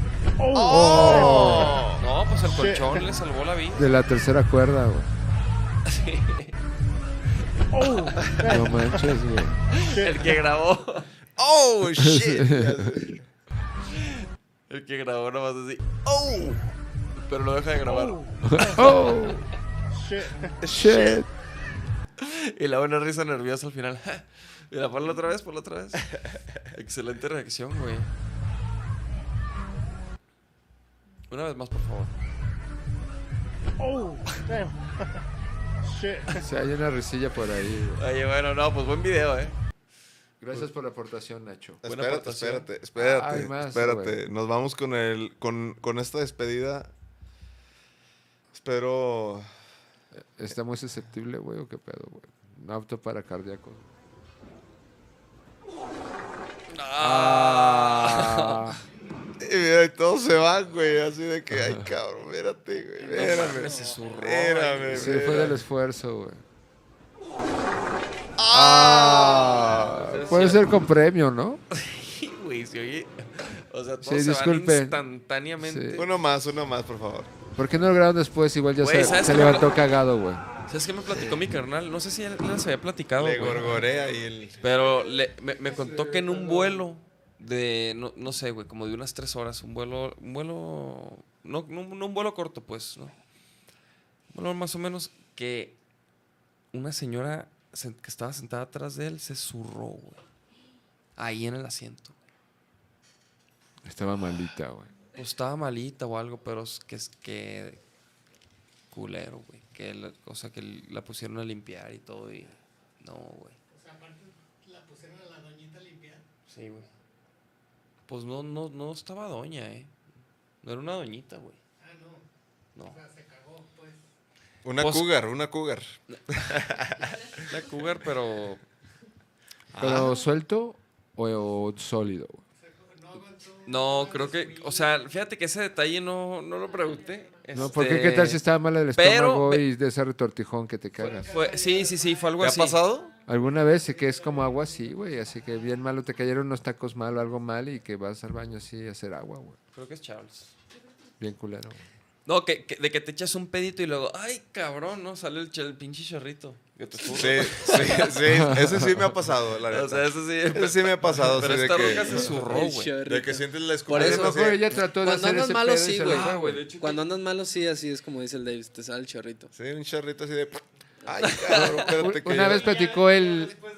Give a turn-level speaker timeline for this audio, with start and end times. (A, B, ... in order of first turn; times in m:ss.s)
0:00.5-0:02.0 A
0:00.5-0:01.8 B
0:02.0-0:03.9 C
0:03.7-0:05.1 B
0:05.9-0:06.6 C
0:07.8-0:08.5 C
0:08.4-0:09.6 B
0:09.7-0:11.1 C
0:11.4-0:13.2 A
0:12.0-0:13.0 B
0:14.7-0:19.3 C
0:18.4-0:19.5 B
0:20.6-0:21.3 B
0:20.6-0:21.2 A
0:22.2-0:26.0 C
0:26.7-0:28.1 C
0:31.3-0:32.1 C
0:36.3-0:38.0 B
0:38.0-0:39.6 C
0:40.4-0:41.8 B
0:41.8-0:46.9 A
0:41.8-0:42.7 C
0:43.0-0:44.2 B
0:48.5-0:49.5 A
0:50.2-0:53.9 B
0:56.7-0:58.7 C
0:57.0-0:58.8 B
0:59.4-1:05.6 A
1:03.1-1:05.5 C
1:04.9-1:06.4 B
1:08.4-1:10.0 A
1:08.5-1:11.6 B
1:10.0-1:10.7 C
1:11.7-1:16.1 C
1:14.0-1:15.0 B
1:15.6-1:16.1 B
1:15.9-1:17.3 A
1:17.6-1:20.4 B
1:18.8-1:19.7 C
1:20.7-1:23.8 C
1:23.2-1:24.6 A
1:24.6-1:33.1 C
1:25.7-1:26.8 B
1:34.3-1:35.8 C
1:36.7-1:40.2 C
1:41.2-1:42.2 C
1:43.8-1:44.9 B
1:45.2-1:47.8 C
1:48.9-1:53.6 C
1:56.5-1:56.9 C
1:58.1-1:59.9 C
2:00.6-2:01.6 C
2:02.7-2:03.0 C
2:04.6-2:07.1 A
2:04.8-2:05.1 C
2:07.5-2:08.6 C
2:09.7-2:10.2 A
2:09.8-2:12.4 B
2:13.6-2:19.6 C
2:17.5-2:21.4 B
2:21.3-2:22.8 C
2:22.4-2:23.1 A
2:23.3-2:29.6 B
2:29.7-2:30.5 C
2:31.2-2:31.8 B
2:32.3-2:38.2 C
2:37.1-2:42.6 A
2:38.3-2:39.1 B
2:39.7-2:43.0 C
2:41.8-2:44.4 D
2:43.1-2:44.6 A
2:43.9-2:46.6 B
2:45.0-2:49.5 D
2:46.0-2:47.1 C
2:49.5-2:52.7 A
2:51.2-2:52.0 C
2:51.9-2:53.6 B